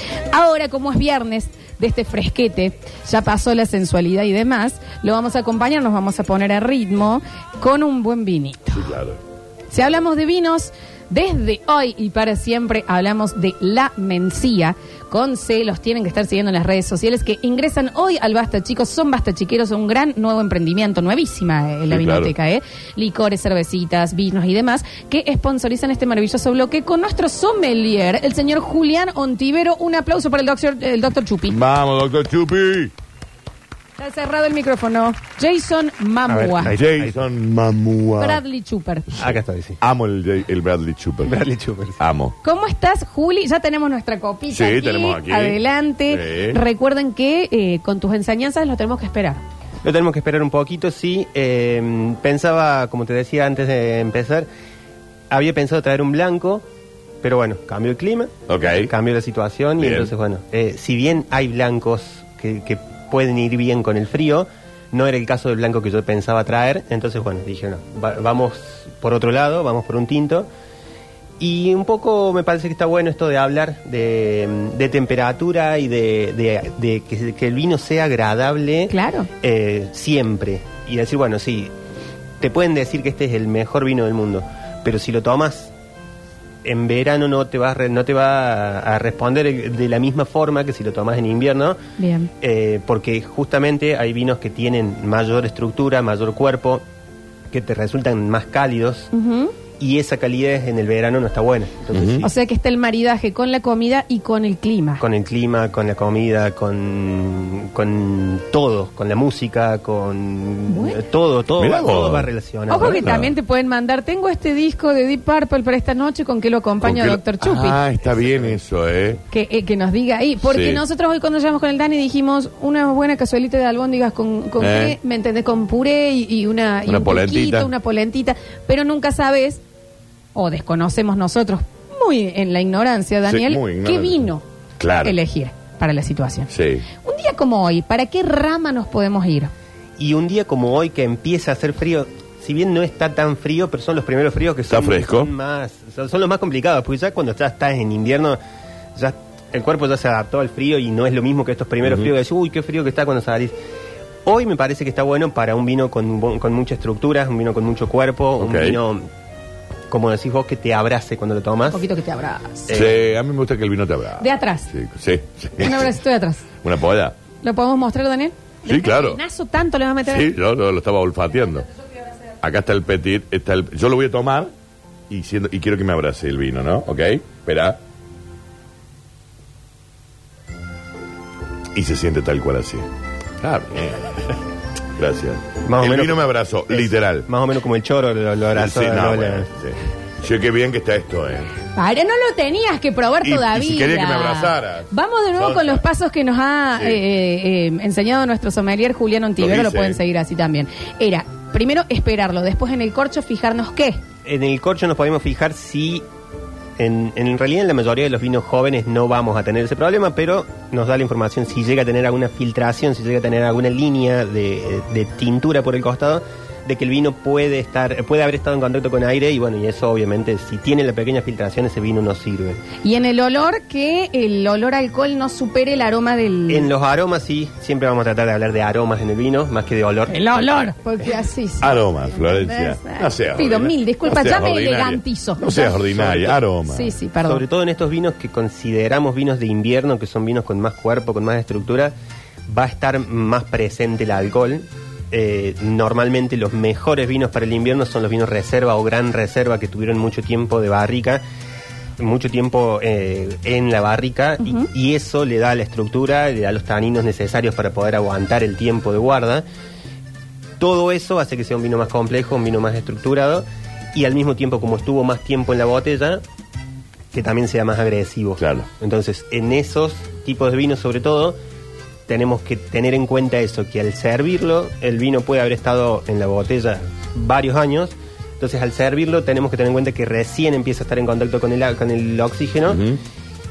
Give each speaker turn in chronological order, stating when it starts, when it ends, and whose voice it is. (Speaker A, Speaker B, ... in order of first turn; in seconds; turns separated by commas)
Speaker A: 0.3-8.9, Speaker B: 8.7-9.2, Speaker A: 9.7-31.6, Speaker B: 21.9-22.3, Speaker B: 31.5-32.9, Speaker A: 34.0-36.7, Speaker B: 36.3-38.4, Speaker C: 36.6-37.2, Speaker A: 38.2-39.1, Speaker C: 39.2-39.8, Speaker B: 39.8-41.4, Speaker C: 41.2-42.0, Speaker B: 42.0-42.3, Speaker A: 42.4-49.4, Speaker B: 44.5-46.6, Speaker C: 49.8-54.5, Speaker C: 55.3-56.6, Speaker C: 57.2-70.5, Speaker B: 58.5-58.9, Speaker B: 59.8-60.1, Speaker C: 71.4-81.7, Speaker A: 78.9-79.3, Speaker C: 82.4-85.7, Speaker C: 86.6-91.8, Speaker A: 92.0-92.3, Speaker C: 92.4-96.8, Speaker C: 97.5-99.1, Speaker A: 99.1-99.5, Speaker C: 99.8-102.3, Speaker B: 101.9-102.2, Speaker A: 102.2-105.0, Speaker C: 105.0-113.1, Speaker A: 110.7-111.0, Speaker B: 111.6-113.3, Speaker A: 112.7-117.9, Speaker B: 116.8-119.2, Speaker A: 119.3-129.6, Speaker B: 120.4-120.8, Speaker B: 124.6-125.0, Speaker B: 126.8-127.7, Speaker A: 130.3-134.4, Speaker B: 133.2-135.2, Speaker A: 135.0-136.5, Speaker B: 136.5-136.8, Speaker A: 137.0-139.5, Speaker C: 140.0-148.4, Speaker B: 144.7-145.3, Speaker C: 148.9-153.5, Speaker B: 151.8-152.1, Speaker C: 154.2-159.1, Speaker B: 158.4-158.8, Speaker C: 159.9-161.8, Speaker A: 161.7-162.7, Speaker C: 162.7-162.9, Speaker B: 162.7-165.9, Speaker A: 164.2-164.7, Speaker A: 165.6-166.4, Speaker B: 166.6-167.2, Speaker A: 167.4-170.3, Speaker B: 168.7-169.2, Speaker B: 170.1-171.7, Speaker B: 172.4-174.5, Speaker B: 175.1-177.8, Speaker B: 181.7-182.9, Speaker B: 183.4-184.3, Speaker B: 185.0-187.3, Speaker C: 185.6-189.5, Speaker B: 188.5-191.5, Speaker A: 191.7-204.0, Speaker B: 193.2-195.8, Speaker B: 199.4-200.0, Speaker C: 204.2-206.0, Speaker C: 206.8-222.6, Speaker A: 222.8-226.7, Speaker C: 226.5-230.7, Speaker A: 230.1-235.8, Speaker B: 231.6-236.9, Speaker C: 235.9-236.3, Speaker A: 236.7-237.4, Speaker C: 237.2-241.9, Speaker C: 242.5-251.2, Speaker C: 252.0-259.4, Speaker A: 254.4-254.7, Speaker C: 260.6-266.2, Speaker C: 267.1-271.4, Speaker B: 268.4-268.7, Speaker C: 272.1-282.8, Speaker B: 282.7-283.0